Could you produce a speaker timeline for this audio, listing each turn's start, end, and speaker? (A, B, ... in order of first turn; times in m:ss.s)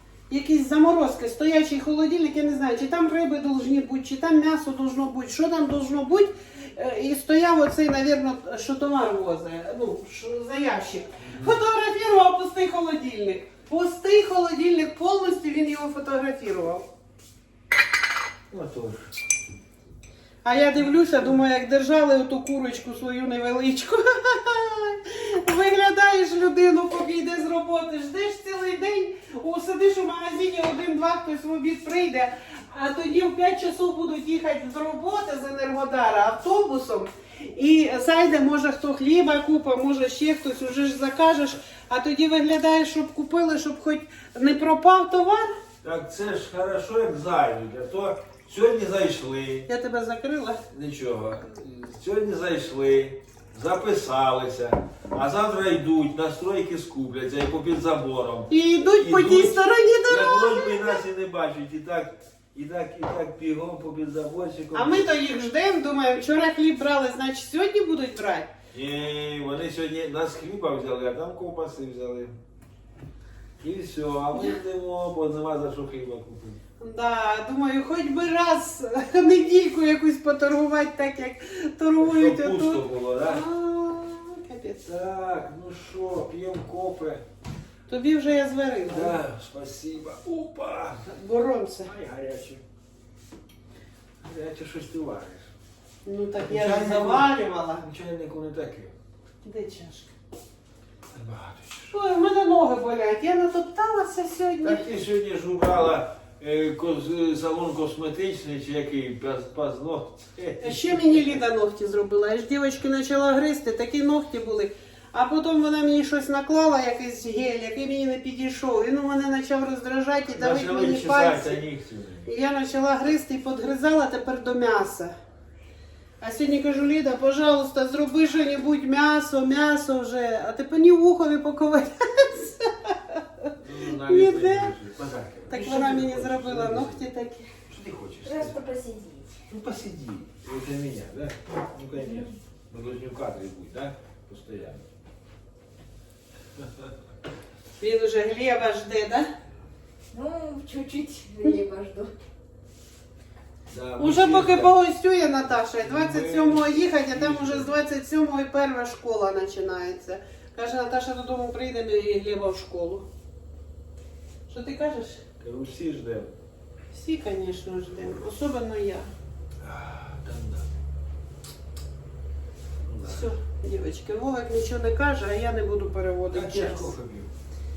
0:00.3-0:16.9 A
0:11.2-0:11.6 B
0:18.5-0:19.1 B
0:20.4-0:45.5 A
0:45.8-0:49.7 B
0:49.7-0:50.6 A
0:50.7-1:05.3 B
0:58.5-1:01.0 A
1:04.7-1:08.5 A
1:08.7-1:12.3 B
1:13.6-1:16.6 B
1:16.8-1:24.8 A
1:22.0-1:23.4 B
1:24.8-1:27.2 B
1:27.9-1:29.2 A
1:28.9-1:31.0 B
1:31.0-1:31.9 A
1:31.8-1:32.6 B
1:34.2-1:35.5 B
1:36.0-1:37.8 A
1:36.4-1:38.9 B
1:39.4-1:40.1 A
1:41.1-1:42.0 B
1:41.9-1:44.9 A
1:44.6-1:51.4 B
1:50.6-2:01.6 A
2:00.3-2:02.3 B
2:02.2-2:05.1 A
2:06.2-2:14.7 A
2:13.6-2:17.0 B
2:15.5-2:17.5 A
2:17.7-2:18.6 B
2:18.2-2:19.4 C
2:19.5-2:24.8 B
2:22.0-2:22.4 C
2:27.8-2:29.3 A
2:30.1-2:32.1 C
2:33.7-2:34.8 B
2:34.0-2:43.0 A
2:35.5-2:37.8 B
2:44.5-2:45.2 A
2:45.4-2:46.3 B
2:46.9-2:49.1 A
2:49.6-2:50.7 B
2:52.8-2:53.3 B
2:53.0-2:56.9 A
2:56.3-2:57.3 B